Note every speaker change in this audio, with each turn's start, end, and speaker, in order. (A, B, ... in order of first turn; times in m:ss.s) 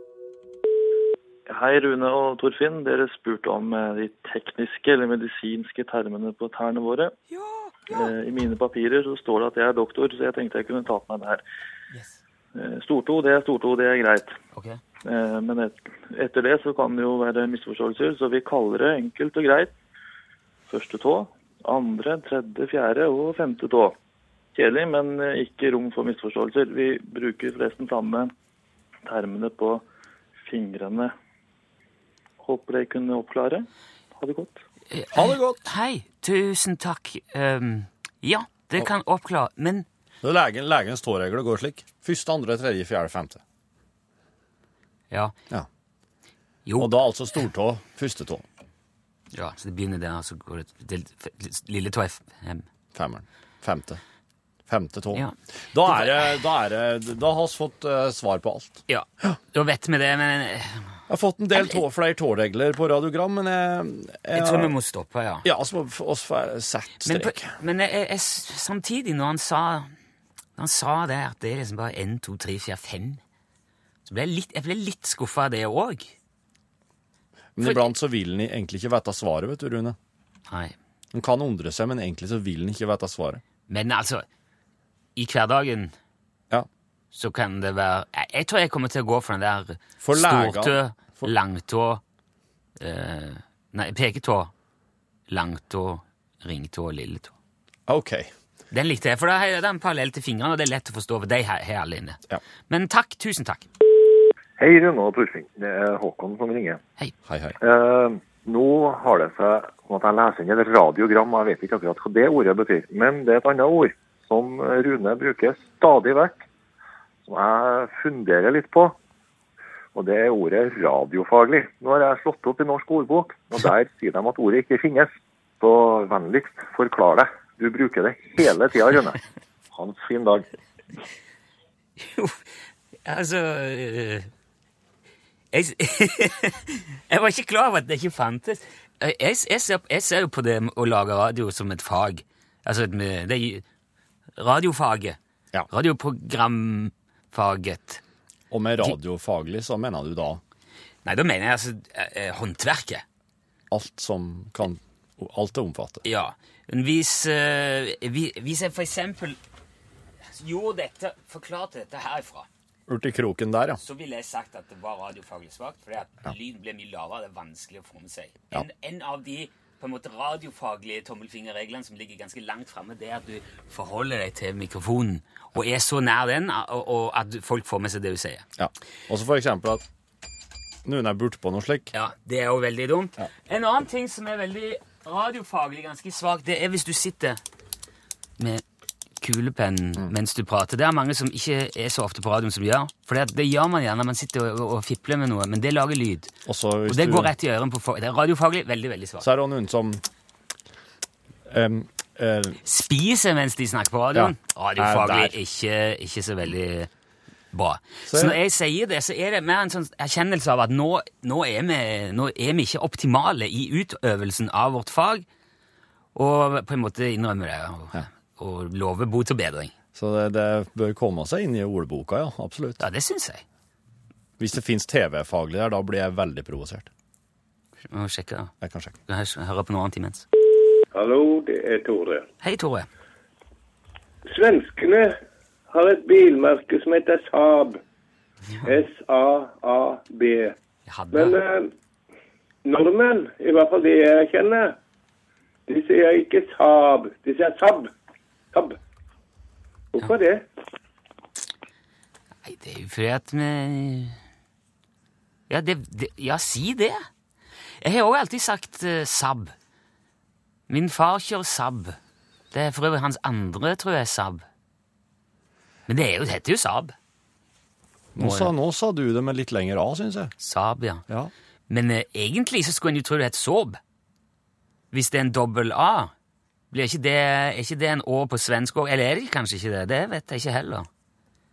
0:01.5-0:07.1 A
0:07.3-0:08.1 B
0:07.9-0:11.4 A
0:12.5-0:14.3 A
0:14.5-0:14.8 B
0:15.0-0:19.7 A
0:20.7-0:24.0 A
0:24.5-0:28.3 A
0:29.0-0:29.8 A
0:30.4-0:31.1 A
0:32.4-0:34.6 A
0:34.9-0:39.8 B
0:35.1-0:35.6 C
0:40.2-0:43.4 C
0:46.6-0:46.9 B
0:46.8-0:48.4 C
0:49.3-0:52.6 B
0:52.9-0:54.0 C
0:54.7-0:59.4 C
0:55.9-0:56.3 B
0:58.9-1:00.8 B
1:01.1-1:04.7 C
1:04.3-1:05.4 B
1:05.4-1:07.5 C
1:07.0-1:09.9 B
1:10.6-1:13.2 B
1:14.0-1:16.1 B
1:17.6-1:20.0 C
1:17.6-1:17.9 B
1:20.5-1:20.7 B
1:21.1-1:23.4 C
1:23.7-1:24.2 B
1:25.2-1:25.9 B
1:27.1-1:32.0 B
1:30.0-1:31.3 C
1:32.8-1:34.5 B
1:35.3-1:37.3 B
1:37.9-1:38.3 C
1:38.7-1:43.6 B
1:44.6-1:46.8 D
1:47.2-1:47.6 C
1:47.6-1:56.4 D
1:57.2-1:59.0 D
1:59.9-2:10.4 D
2:12.0-2:12.4 B
2:13.0-2:14.3 B
2:15.5-2:23.6 B
2:24.4-2:25.2 B
2:25.7-2:28.0 B
2:28.5-2:30.4 C
2:31.0-2:33.0 B
2:33.7-2:36.0 C
2:36.0-2:39.4 B
2:40.4-2:42.5 B
2:42.9-2:43.8 C
2:43.8-2:58.4 B
2:58.6-2:59.8 C
3:00.8-3:01.9 C
3:01.9-3:07.4 B
3:08.4-3:08.6 B
3:09.2-3:16.3 B
3:16.4-3:17.3 C
3:16.9-3:19.2 B
3:19.2-3:20.0 C
3:21.5-3:22.6 C
3:22.6-3:26.9 B
3:24.1-3:25.3 C
3:27.5-3:35.2 B
3:28.1-3:28.4 C
3:36.1-3:39.7 B
3:39.9-3:42.8 C
3:42.8-3:43.4 B
3:44.4-3:46.9 C
3:47.9-3:48.5 B
3:48.6-3:48.9 C
3:49.1-3:50.2 B
3:50.9-3:52.2 E
3:52.4-3:52.9 B
3:54.3-3:55.2 E
3:55.7-3:57.8 E
3:58.6-4:00.6 E
4:00.9-4:01.4 B
4:01.1-4:01.7 E
4:02.6-4:04.8 E
4:05.7-4:07.9 E
4:08.5-4:08.8 E
4:09.9-4:10.4 E
4:12.4-4:14.2 B
4:15.5-4:17.0 B
4:17.8-4:19.5 B
4:20.7-4:22.0 B
4:22.5-4:24.4 B
4:25.9-4:26.9 B
4:28.1-4:30.3 C
4:28.2-4:28.5 B
4:30.4-4:31.0 B
4:31.7-4:33.8 B
4:34.9-4:36.1 B
4:36.7-4:40.9 B